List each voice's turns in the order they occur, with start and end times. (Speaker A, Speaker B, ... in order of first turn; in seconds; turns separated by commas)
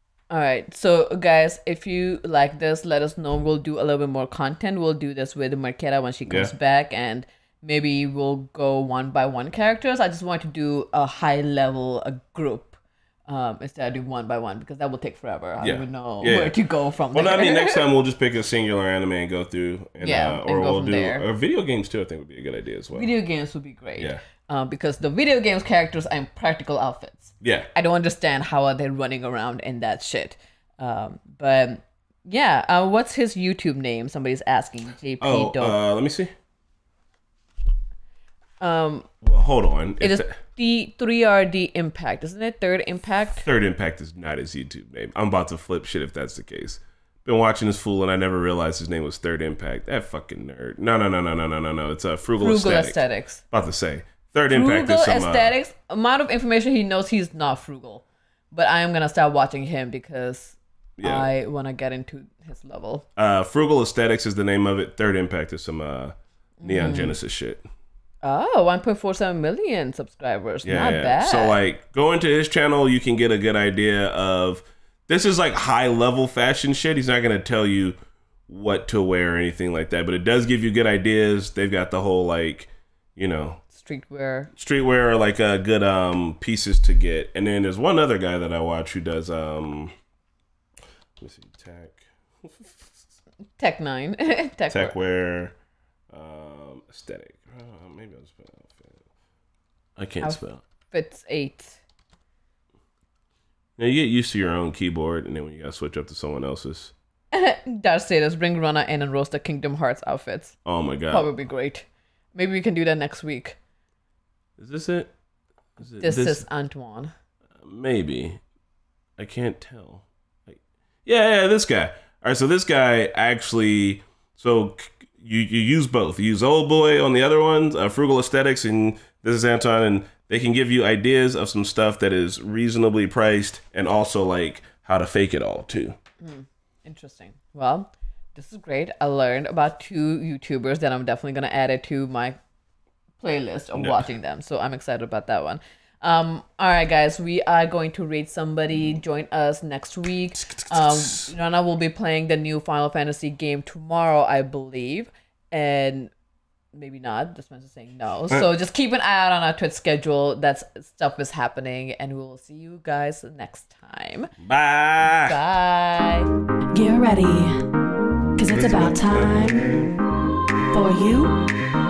Speaker A: 0.3-17.9, Speaker B: 6.3-6.5, Speaker B: 15.6-16.6, Speaker B: 17.1-23.1, Speaker A: 20.0-21.2, Speaker A: 22.9-35.8, Speaker B: 27.4-27.7, Speaker B: 35.2-36.3, Speaker A: 38.6-39.1, Speaker B: 39.2-40.4, Speaker A: 40.0-43.5, Speaker B: 43.5-55.5, Speaker A: 52.4-53.4, Speaker A: 54.5-63.1, Speaker B: 61.0-61.3, Speaker B: 63.2-67.7, Speaker A: 66.6-67.2, Speaker A: 68.2-71.6, Speaker B: 70.6-78.0, Speaker B: 78.5-83.6, Speaker A: 83.7-84.5, Speaker B: 84.5-89.9, Speaker B: 91.2-93.0, Speaker A: 93.6-95.0, Speaker B: 94.7-95.5, Speaker B: 96.1-99.0, Speaker B: 100.0-100.6, Speaker A: 100.2-101.8, Speaker B: 103.8-106.9, Speaker A: 107.3-110.5, Speaker B: 110.7-111.3, Speaker A: 111.1-113.6, Speaker B: 114.6-115.1, Speaker B: 115.8-116.5, Speaker A: 116.0-117.1, Speaker B: 117.6-118.4, Speaker B: 119.2-136.0, Speaker A: 136.2-142.4, Speaker A: 143.2-156.1, Speaker B: 143.8-144.1, Speaker B: 150.5-151.3, Speaker A: 156.7-164.3, Speaker B: 164.4-165.4, Speaker A: 165.2-166.3, Speaker C: 166.7-167.6, Speaker C: 168.4-169.7, Speaker B: 168.5-169.9, Speaker C: 170.7-171.4